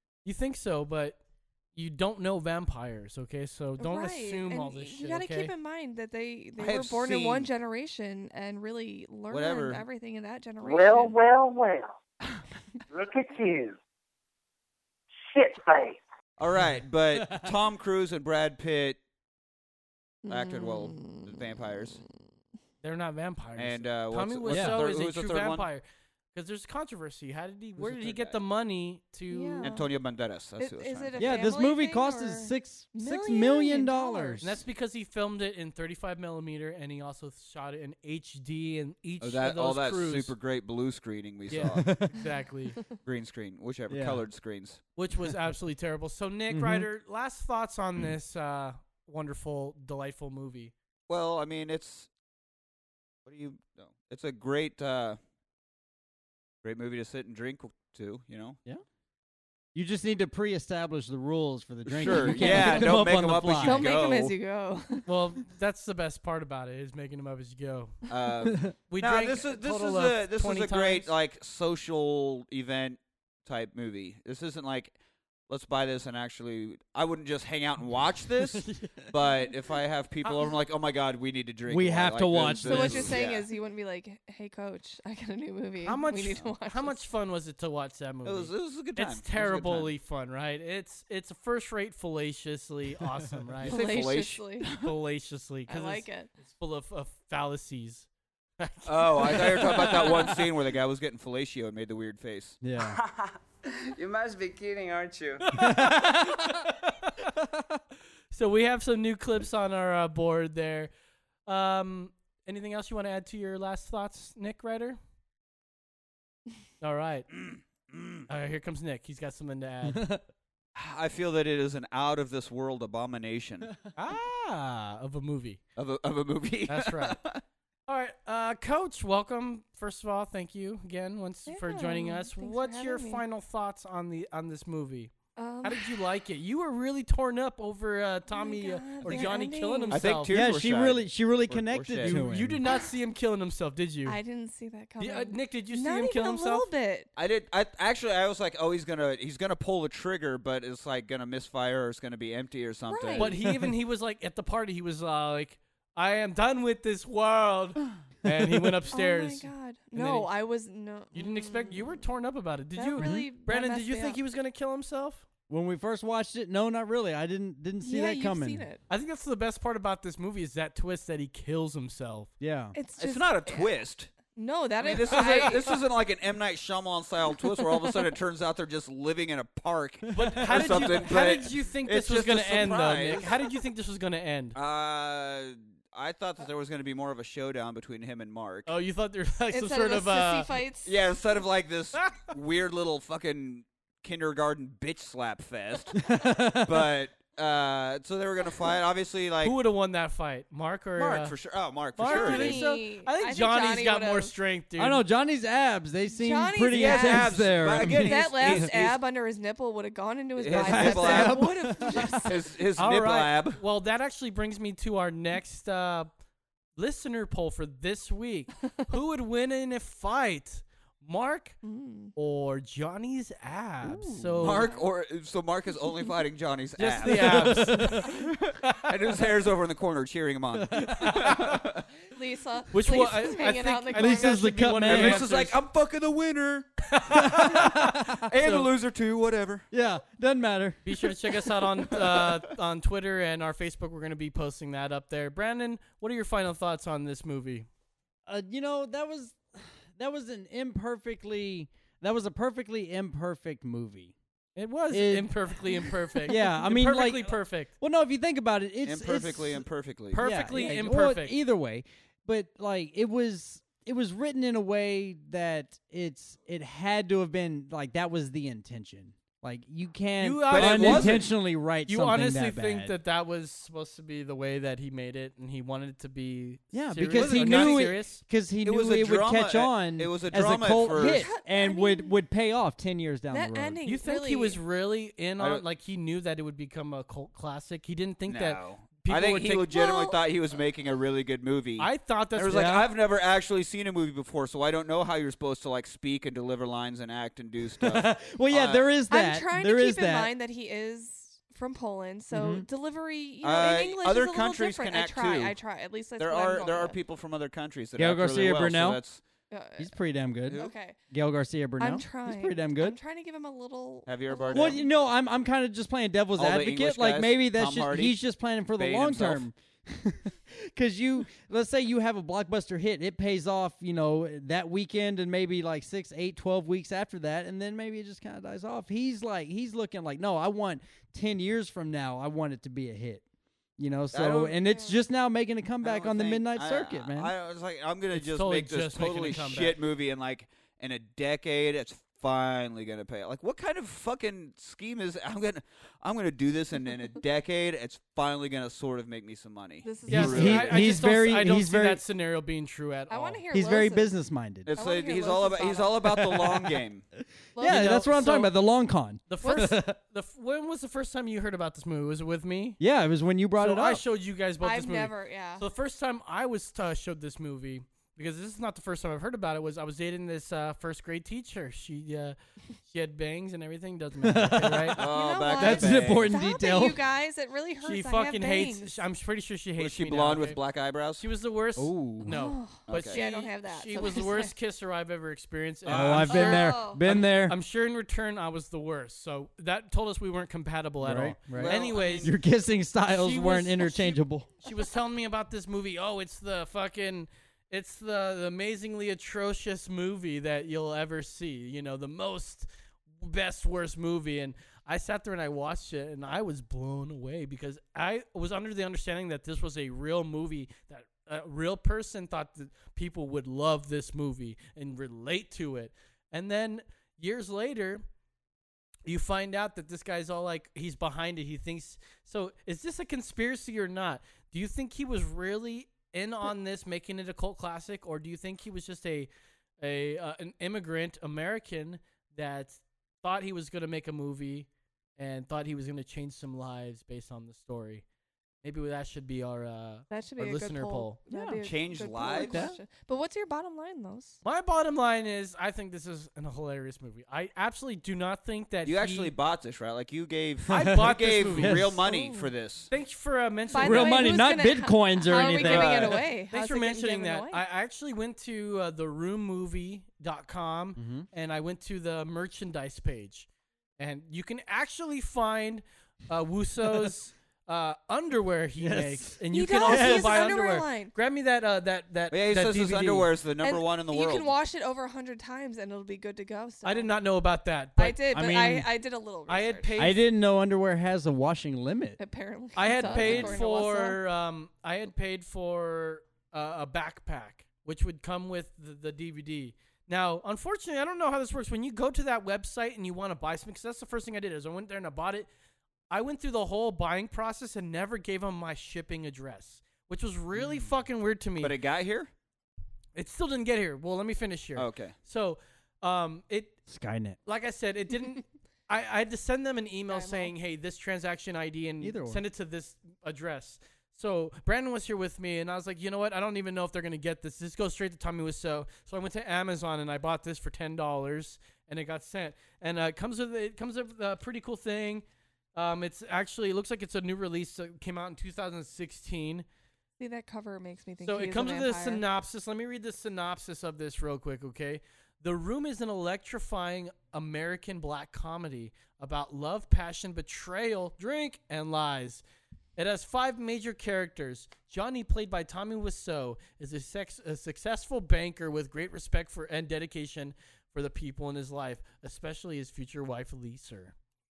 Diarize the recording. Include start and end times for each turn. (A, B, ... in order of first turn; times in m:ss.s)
0:00.2-0:01.2 A
0:01.8-0:05.5 A
0:03.8-0:11.2 B
0:06.6-0:07.5 C
0:09.3-0:09.8 C
0:10.6-0:12.0 D
0:12.9-0:13.8 D
0:15.3-0:16.0 D
0:16.4-0:19.0 C
0:16.6-0:17.5 E
0:20.2-0:21.6 B
0:20.3-0:22.0 C
0:22.8-0:29.7 A
0:23.6-0:25.7 C
0:24.5-0:24.8 E
0:27.8-0:28.4 C
0:29.3-0:29.9 B
0:29.6-0:31.5 C
0:30.6-0:34.4 B
0:31.2-0:34.6 E
0:34.4-0:40.4 A
0:39.2-0:42.0 C
0:41.5-0:42.8 A
0:41.7-0:42.1 E
0:43.0-0:44.8 C
0:43.9-0:44.2 E
0:45.0-0:50.7 A
0:46.5-0:46.9 E
0:51.1-0:52.1 C
0:53.3-0:55.2 C
0:56.6-0:58.6 C
0:59.7-1:03.9 E
1:01.9-1:04.3 C
1:02.1-1:02.9 B
1:03.6-1:05.1 B
1:05.1-1:08.0 A
1:08.1-1:15.0 C
1:08.9-1:11.1 A
1:15.5-1:23.5 C
1:18.6-1:19.0 E
1:21.7-1:23.2 E
1:22.6-1:27.0 B
1:25.9-1:33.8 A
1:28.2-1:30.0 C
1:33.6-1:34.9 C
1:33.6-1:34.7 B
1:34.7-1:38.1 A
1:35.7-1:36.3 B
1:38.6-1:40.4 A
1:38.9-1:42.6 C
1:42.6-1:43.0 E
1:42.9-1:45.5 F
1:45.5-1:46.7 A
1:45.5-1:46.4 E
1:48.3-1:50.9 A
1:51.5-1:55.0 A
1:56.8-1:57.3 A
1:57.3-1:58.3 C
1:58.3-2:00.1 A
1:59.9-2:00.2 E
2:00.8-2:03.7 C
2:04.0-2:05.6 A
2:05.8-2:07.4 C
2:06.7-2:07.2 A
2:07.9-2:20.4 A
2:11.5-2:13.2 B
2:15.4-2:16.0 B
2:18.3-2:20.0 B
2:19.9-2:22.2 C
2:20.3-2:22.6 E
2:22.0-2:24.2 A
2:24.1-2:27.1 B
2:25.0-2:26.7 A
2:27.2-2:33.4 C
2:32.9-2:33.4 B
2:33.2-2:40.3 A
2:38.3-2:38.7 E
2:38.9-2:42.1 B
2:41.1-2:45.2 A
2:42.8-2:44.2 B
2:43.0-2:43.3 E
2:45.5-2:48.7 E
2:47.8-2:48.8 B
2:48.9-2:52.3 A
2:52.4-2:52.8 E
2:52.8-2:53.7 B
2:53.0-2:54.1 C
2:54.3-2:55.8 B
2:54.8-3:03.4 C
3:00.1-3:04.6 A
3:00.2-3:00.9 E
3:04.6-3:08.7 C
3:08.7-3:10.5 A
3:09.5-3:11.0 B
3:10.8-3:16.0 C
3:16.0-3:16.9 E
3:16.6-3:19.6 C
3:19.4-3:21.4 A
3:21.0-3:22.7 C
3:22.0-3:25.0 A
3:22.0-3:24.3 B
3:24.8-3:28.7 E
3:26.1-3:32.4 B
3:26.7-3:29.0 C
3:30.4-3:33.6 C
3:30.5-3:32.3 E
3:32.8-3:36.1 A
3:36.8-3:41.6 A
3:41.6-3:42.1 B
3:42.2-3:44.7 A
3:43.8-3:44.6 E
3:44.4-3:51.8 C
3:44.6-3:44.9 B
3:46.8-3:48.1 A
3:47.0-3:48.2 E
3:50.6-3:51.2 E
3:52.1-3:54.5 B
3:52.7-3:55.6 A
3:53.9-3:55.3 E
3:54.9-3:56.7 C
3:57.0-3:57.8 A
3:57.3-3:58.1 E
3:58.1-3:59.7 C
3:58.4-3:58.7 A
3:59.7-4:01.1 E
4:00.8-4:07.7 A
4:08.3-4:14.2 E
4:14.6-4:17.7 A
4:14.9-4:33.0 E
4:18.8-4:20.3 C
4:20.1-4:21.4 A
4:30.2-4:31.3 A
4:30.5-4:31.3 C
4:31.9-4:38.2 A
4:36.7-4:43.8 E
4:37.1-4:38.0 C
4:38.6-4:41.3 C
4:40.9-4:42.1 B
4:43.3-4:44.6 B
4:43.9-4:49.7 A
4:45.4-4:45.7 C
4:48.3-4:58.9 C
4:49.7-4:50.2 B
4:51.8-4:52.7 A
4:52.5-4:52.9 E
4:57.8-5:00.3 E
4:59.1-5:07.0 B
5:02.3-5:02.7 E
5:03.4-5:05.6 C
5:06.2-5:09.2 C
5:08.0-5:09.0 E
5:09.5-5:09.9 B
5:09.8-5:13.0 E
5:10.5-5:11.0 B
5:11.8-5:14.9 B
5:14.1-5:14.8 C
5:14.5-5:33.2 E
5:16.4-5:18.2 C
5:18.8-5:19.5 C
5:33.8-5:37.3 E
5:34.1-5:34.6 C
5:34.6-5:35.0 B
5:35.8-5:51.0 C
5:38.1-5:39.8 A
5:49.8-5:50.7 B
5:50.1-5:52.0 E
5:50.1-5:53.4 A
5:53.1-5:54.2 B
5:53.5-5:54.7 E
5:54.7-5:57.1 C
5:54.8-5:56.4 B
5:56.3-5:56.6 E
5:57.6-5:58.4 B
5:57.6-6:00.0 E
5:57.6-5:58.5 A
5:59.3-6:02.8 A
5:59.4-5:59.7 B
6:02.8-6:04.0 E
6:03.6-6:15.0 A
6:04.6-6:05.6 B
6:14.2-6:17.0 E
6:15.0-6:16.4 C
6:15.1-6:19.0 B
6:17.8-6:20.6 A
6:19.8-6:21.3 C
6:21.2-6:32.3 A
6:21.8-6:22.3 E
6:22.3-6:24.5 B
6:22.9-6:23.2 C
6:25.9-6:26.3 C
6:25.9-6:27.6 E
6:26.3-6:27.0 B
6:31.0-6:34.5 E
6:31.5-6:32.3 C
6:33.1-6:42.7 A
6:43.2-6:58.0 A
6:59.1-7:09.3 A
7:09.8-7:18.0 A
7:18.6-7:21.2 A
7:20.1-7:24.4 B
7:21.6-7:22.7 C
7:22.4-7:22.8 E
7:24.4-7:29.3 A
7:28.8-7:32.9 C
7:30.7-7:31.9 A
7:30.7-7:32.0 E
7:32.0-7:32.5 B
7:32.9-7:34.4 A
7:33.7-7:37.6 B
7:33.8-7:36.2 E
7:35.4-7:43.5 A
7:41.0-7:41.3 E
7:44.0-7:53.3 A
7:48.8-7:50.5 E
7:49.5-7:51.1 B
7:52.3-7:54.5 C
7:53.6-7:57.2 B
7:56.8-7:58.2 A
7:58.0-8:00.0 B
7:58.3-7:58.9 E
7:59.5-8:00.2 A
8:00.0-8:02.2 E
8:02.2-8:04.2 B
8:02.8-8:15.5 A
8:03.1-8:03.5 E
8:16.1-8:21.8 A
8:20.6-8:20.9 E
8:21.6-8:22.3 C
8:23.2-8:26.8 A
8:24.8-8:25.2 C
8:26.9-8:27.4 E
8:27.5-8:45.2 A
8:30.1-8:30.5 B
8:32.0-8:32.4 E
8:45.8-8:49.7 A
8:50.2-8:52.2 B
8:51.2-9:02.4 A
9:03.0-9:14.1 A